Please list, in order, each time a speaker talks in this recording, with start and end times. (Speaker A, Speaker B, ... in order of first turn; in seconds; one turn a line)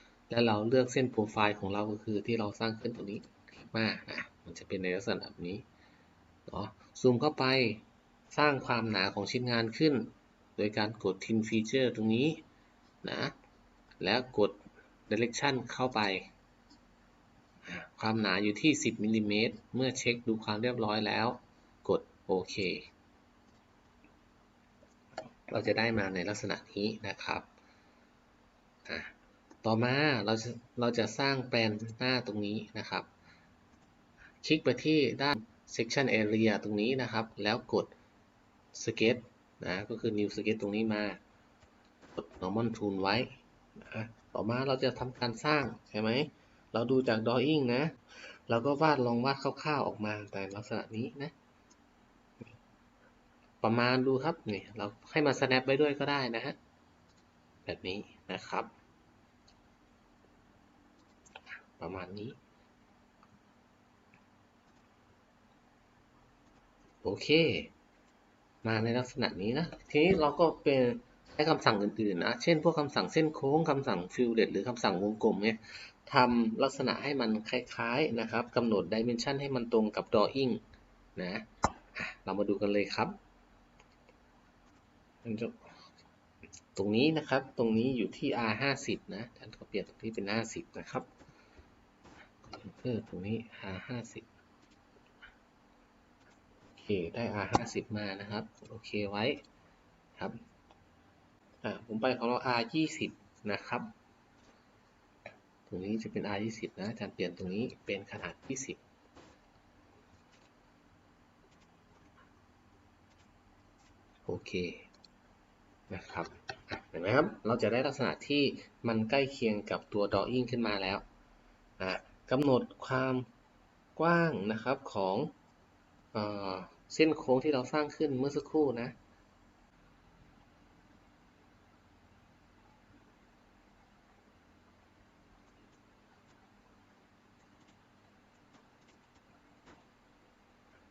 Speaker A: 0.3-5.6
Speaker A: 6.5-12.4
Speaker A: 13.0-13.3
Speaker A: 14.0-16.3
Speaker A: 17.6-22.9
Speaker A: 25.5-27.5
Speaker A: 28.9-33.1
Speaker A: 34.4-37.9
Speaker A: 38.7-41.2
Speaker A: 42.1-51.3
Speaker A: 53.6-56.6
Speaker A: 57.7-58.7
Speaker A: 61.8-62.4
Speaker A: 67.0-67.7
Speaker A: 68.6-80.6
Speaker A: 81.2-83.2
Speaker A: 85.2-85.8
Speaker A: 86.8-91.1
Speaker A: 92.5-94.3
Speaker A: 96.8-99.4
Speaker A: 101.6-103.9
Speaker A: 105.7-108.8
Speaker A: 114.3-114.9
Speaker A: 115.9-121.0
Speaker A: 121.8-123.3
Speaker A: 124.0-125.3
Speaker A: 126.1-128.9